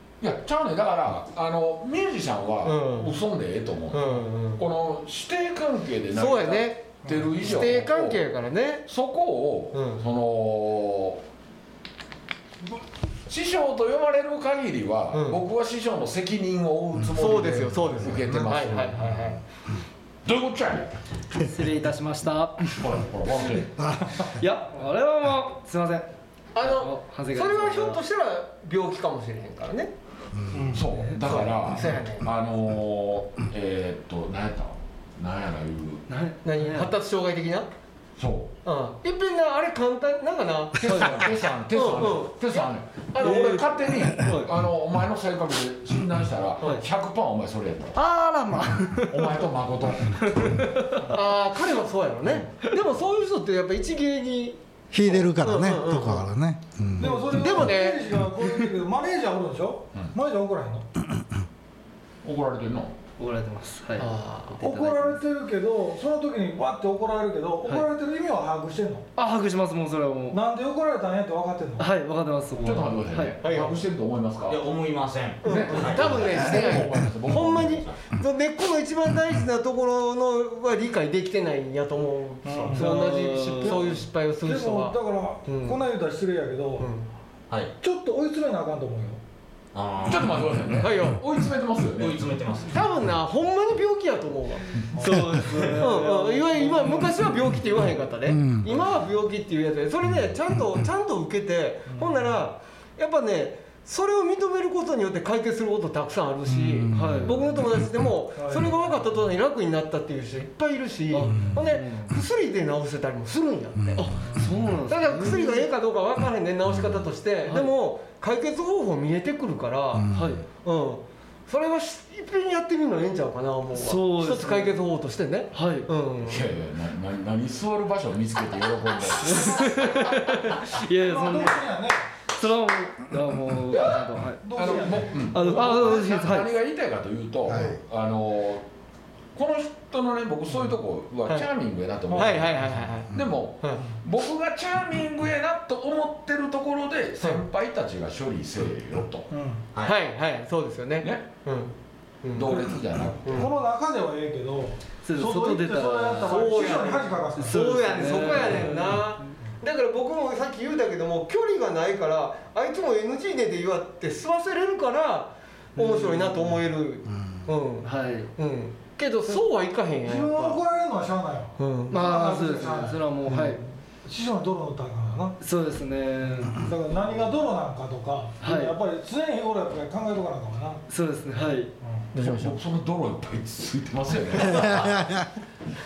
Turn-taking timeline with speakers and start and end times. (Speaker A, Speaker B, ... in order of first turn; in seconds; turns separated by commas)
Speaker A: 0.2-8.2, Speaker B: 2.6-3.1, Speaker B: 3.9-4.6, Speaker B: 6.1-8.9, Speaker C: 7.1-7.3, Speaker A: 8.9-11.2, Speaker B: 9.7-10.0, Speaker A: 13.3-19.1, Speaker B: 15.1-15.4, Speaker B: 17.1-19.4, Speaker A: 20.2-21.0, Speaker D: 21.4-23.4, Speaker A: 22.7-23.9, Speaker D: 24.2-28.0, Speaker B: 26.6-29.9, Speaker C: 30.5-31.1, Speaker A: 30.7-36.1, Speaker B: 31.2-32.3, Speaker D: 36.1-36.9, Speaker B: 36.4-37.7, Speaker A: 38.2-38.5, Speaker B: 38.6-41.1, Speaker A: 40.8-48.0, Speaker D: 40.9-41.2, Speaker B: 41.7-44.4, Speaker D: 43.2-43.6, Speaker D: 44.2-44.5, Speaker D: 48.0-49.4, Speaker A: 49.1-50.6, Speaker D: 50.4-51.1, Speaker B: 51.1-56.3, Speaker E: 54.9-57.7, Speaker C: 57.0-60.9, Speaker B: 57.1-58.0, Speaker A: 62.2-63.0, Speaker D: 63.2-65.2, Speaker B: 64.0-64.6, Speaker C: 64.6-69.1, Speaker D: 69.2-70.4, Speaker C: 70.3-71.9, Speaker D: 71.8-73.4, Speaker A: 72.6-74.6, Speaker B: 73.4-73.8, Speaker F: 74.5-76.3, Speaker B: 75.4-85.8, Speaker A: 75.4-78.1, Speaker C: 82.5-86.9, Speaker D: 82.8-83.8, Speaker B: 86.8-87.1, Speaker C: 87.8-89.2, Speaker F: 89.7-90.7, Speaker A: 90.0-92.2, Speaker B: 90.8-91.2, Speaker F: 92.0-92.8, Speaker B: 92.7-94.7, Speaker D: 95.0-97.1, Speaker C: 95.0-96.1, Speaker B: 95.7-114.3, Speaker E: 98.3-98.7, Speaker C: 101.9-102.4, Speaker E: 106.7-107.3, Speaker D: 106.9-107.5, Speaker C: 108.4-108.8, Speaker D: 111.1-112.2, Speaker D: 114.0-115.7, Speaker C: 114.2-114.6, Speaker B: 114.9-120.1, Speaker D: 117.5-117.7, Speaker D: 120.1-120.5, Speaker B: 120.6-126.5, Speaker D: 123.8-124.8, Speaker D: 125.5-125.9, Speaker A: 126.2-130.2, Speaker D: 129.2-131.7, Speaker C: 131.0-132.1, Speaker D: 132.3-136.5, Speaker A: 133.7-138.7, Speaker C: 134.4-136.0, Speaker E: 137.5-137.8, Speaker A: 139.3-149.3, Speaker B: 142.1-143.8, Speaker C: 149.3-149.6, Speaker B: 149.8-152.7, Speaker A: 151.0-151.3, Speaker A: 152.3-153.5, Speaker B: 153.2-153.5, Speaker C: 153.4-158.8, Speaker D: 155.0-156.5, Speaker B: 156.3-170.6, Speaker D: 157.4-159.1, Speaker D: 165.8-166.4, Speaker D: 167.8-168.3, Speaker C: 170.0-175.4, Speaker B: 171.6-171.9, Speaker D: 171.9-173.6, Speaker D: 175.4-176.7, Speaker C: 176.5-180.8, Speaker D: 178.4-178.8, Speaker D: 180.9-181.7, Speaker C: 181.8-182.1, Speaker B: 182.1-182.6, Speaker A: 182.2-185.0, Speaker E: 184.7-185.2